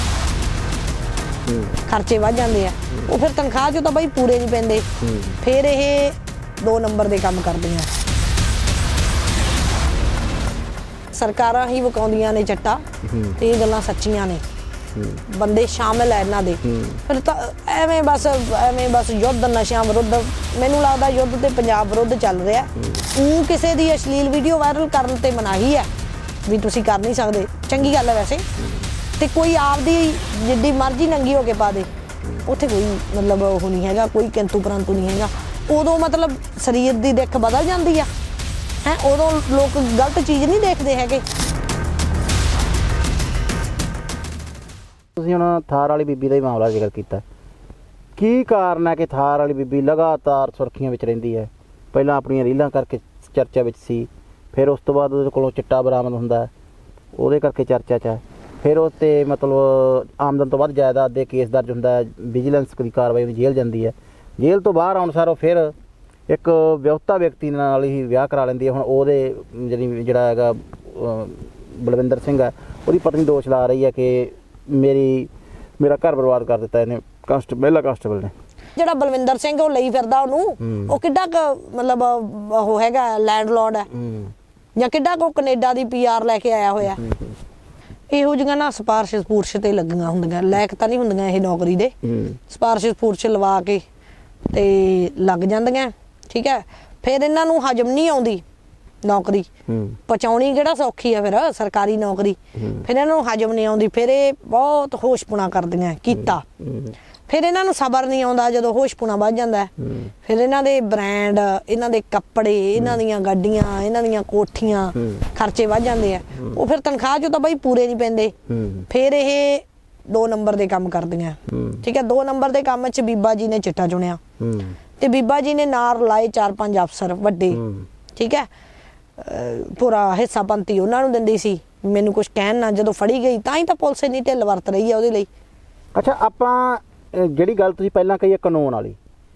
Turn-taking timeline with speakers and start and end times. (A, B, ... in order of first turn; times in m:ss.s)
0:01.5-0:01.7 A
0:01.8-0:04.9 B
0:05.0-0:05.4 A
0:05.4-0:07.9 B
0:11.1-0:12.8 B
0:13.0-0:13.4 A
0:13.4-0:14.4 B
0:14.9-0:15.2 A
0:15.3-0:25.9 B
0:16.6-0:17.0 A
0:26.4-0:28.4 B
0:29.2-0:31.9 B
0:32.4-0:38.1 B
0:38.8-0:41.2 B
0:45.2-0:47.2 A
0:48.2-0:56.5 A
0:57.2-1:05.7 A
1:06.3-1:18.3 A
1:18.8-1:23.9 B
1:20.6-1:21.0 A
1:23.9-1:24.3 A
1:24.8-1:27.0 B
1:27.0-1:27.3 A
1:28.1-1:31.9 B
1:32.0-1:32.4 A
1:32.5-1:33.8 B
1:34.5-1:38.4 B
1:39.0-1:39.5 B
1:39.7-1:40.0 A
1:40.1-1:46.4 B
1:46.6-1:46.9 A
1:47.3-1:49.7 B
1:49.8-1:50.1 A
1:50.2-1:58.3 B
1:58.5-1:58.8 A
1:58.9-2:04.2 B
2:01.5-2:01.8 A
2:04.4-2:04.8 A
2:05.0-2:07.6 B
2:07.5-2:07.8 A
2:08.2-2:08.5 B
2:09.2-2:15.3 B
2:15.9-2:19.0 A